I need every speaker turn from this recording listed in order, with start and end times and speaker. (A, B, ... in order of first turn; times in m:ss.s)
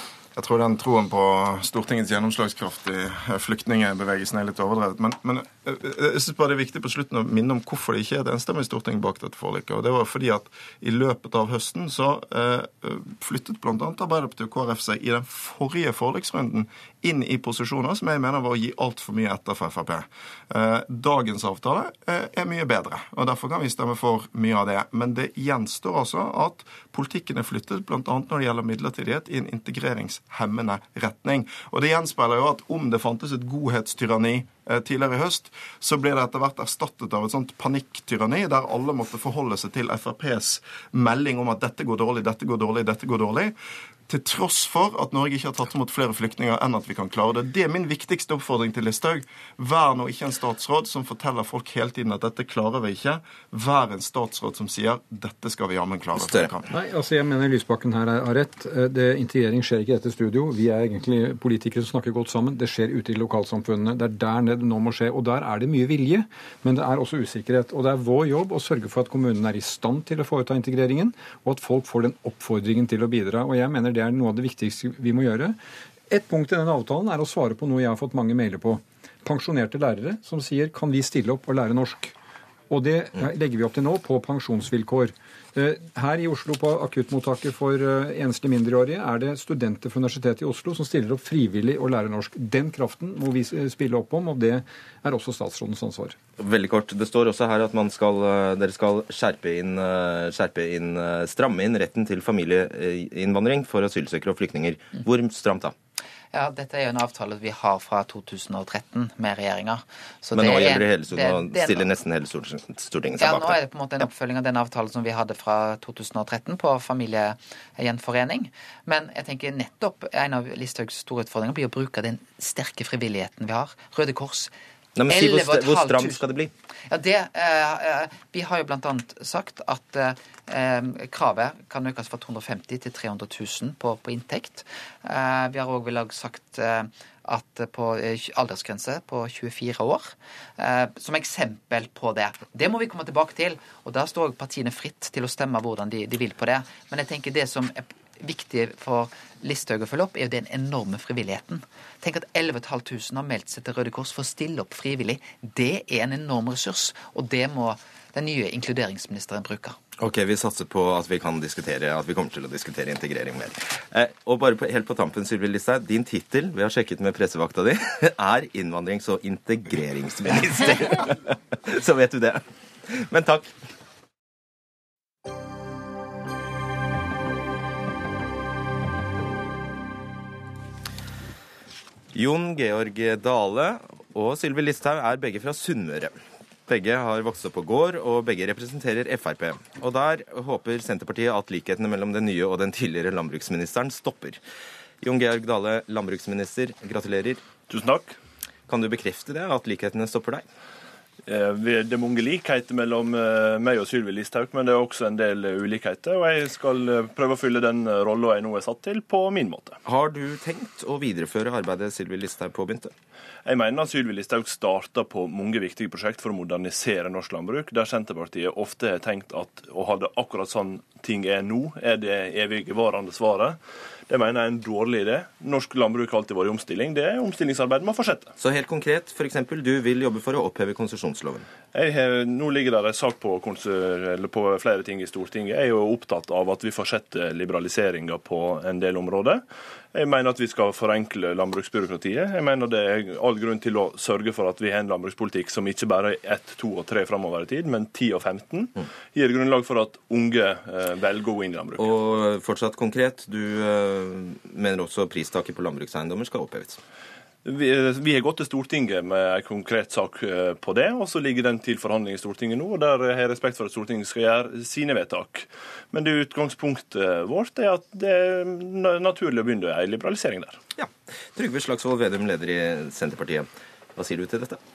0:00.4-0:43.6 A
0:44.1-0:56.7 A
0:56.1-0:56.5 B
0:56.7-1:15.6 C
1:16.1-1:22.2 C
1:22.7-1:36.2 C
1:36.4-1:45.7 B
1:46.3-1:51.9 D
1:50.3-1:53.6 B
1:53.2-2:04.5 D
2:05.0-2:06.5 B
2:05.1-2:06.2 D
2:06.9-2:39.8 D
2:40.0-2:53.5 B
3:02.1-3:06.1 B
3:06.7-3:14.4 B
3:15.0-3:17.4 B
3:17.7-3:18.2 E
3:18.7-3:20.4 B
3:21.3-3:29.8 E
3:29.8-3:32.9 B
3:33.4-3:48.3 E
3:48.4-3:51.5 B
3:51.7-4:11.9 E
4:11.8-4:16.8 B
4:17.4-4:30.6 E
4:30.8-4:34.6 B